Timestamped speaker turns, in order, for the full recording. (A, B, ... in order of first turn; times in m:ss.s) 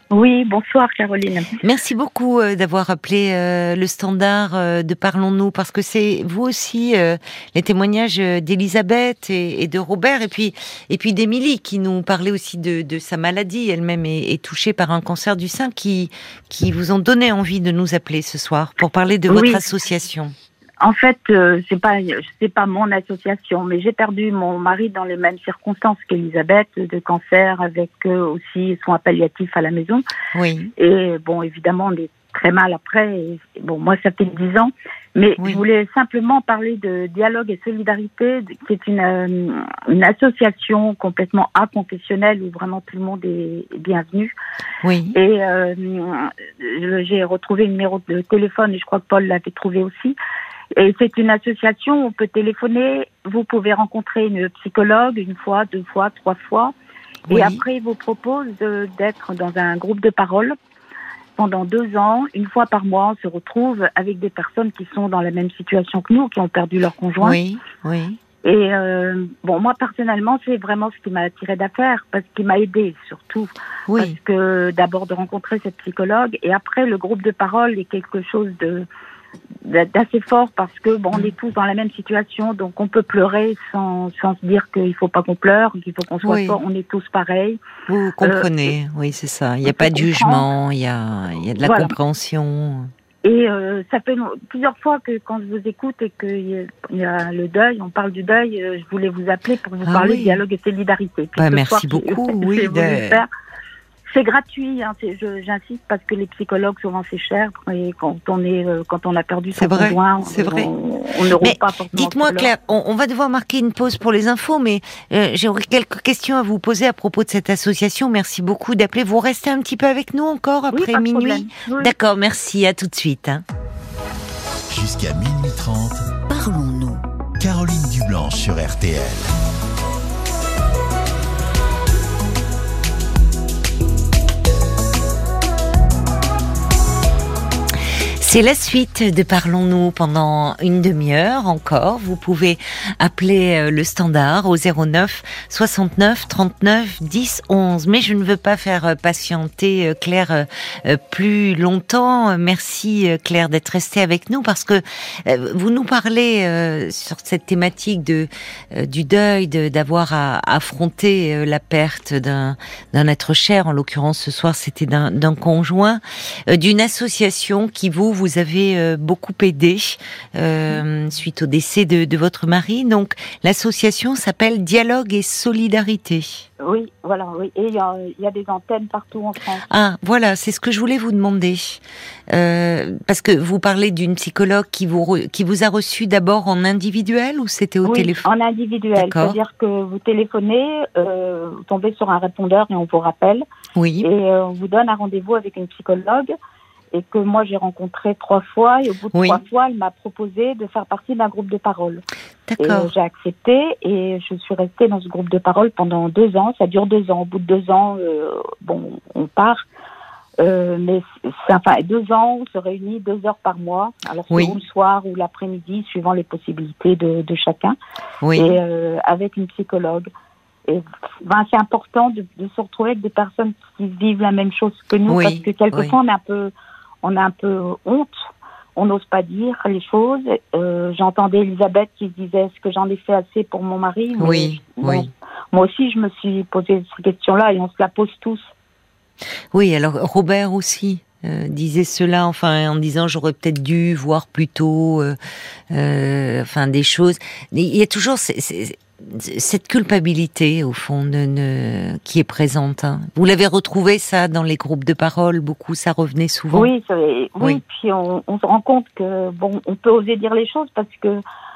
0:00.1-0:01.6 A
0:01.6-0:20.3 B
0:19.3-0:19.6 A
0:20.8-0:30.0 A
0:30.3-0:30.7 B
0:30.8-0:44.3 A
0:44.8-0:45.2 B
0:45.2-0:50.2 A
0:50.8-0:56.8 A
0:57.3-0:57.6 B
0:57.3-1:00.6 A
1:01.4-1:07.4 A
1:07.2-1:08.2 B
1:08.4-1:18.9 A
1:13.9-1:14.2 B
1:19.6-1:27.6 A
1:26.2-1:26.6 B
1:27.9-1:32.9 B
1:28.2-1:28.7 A
1:29.7-1:30.5 A
1:31.6-1:31.9 A
1:33.2-1:43.3 A
1:39.8-1:40.4 B
1:41.4-1:43.2 B
1:44.1-1:52.5 A
1:49.5-1:50.7 B
1:51.4-2:03.4 B
2:00.7-2:01.9 A
2:04.7-2:06.2 C
2:06.3-2:07.0 B
2:07.4-2:09.3 C
2:18.2-2:56.5 B
2:56.6-2:59.7 A
2:59.7-3:08.3 B
3:07.8-3:13.4 A
3:09.0-3:09.4 B
3:13.8-3:14.1 B
3:14.0-3:16.3 A
3:16.9-3:22.0 A
3:19.1-3:19.4 B
3:22.5-3:22.9 B
3:22.6-3:29.6 A
3:30.4-3:37.8 A
3:34.3-3:34.6 B
3:38.2-3:38.6 B
3:38.3-3:40.1 A
3:40.7-3:46.5 A
3:45.1-3:45.9 B
3:47.0-3:48.2 A
3:48.8-3:58.5 A
3:54.2-3:55.1 B
3:59.5-4:05.2 B
4:05.7-4:16.7 B
4:16.5-4:21.2 A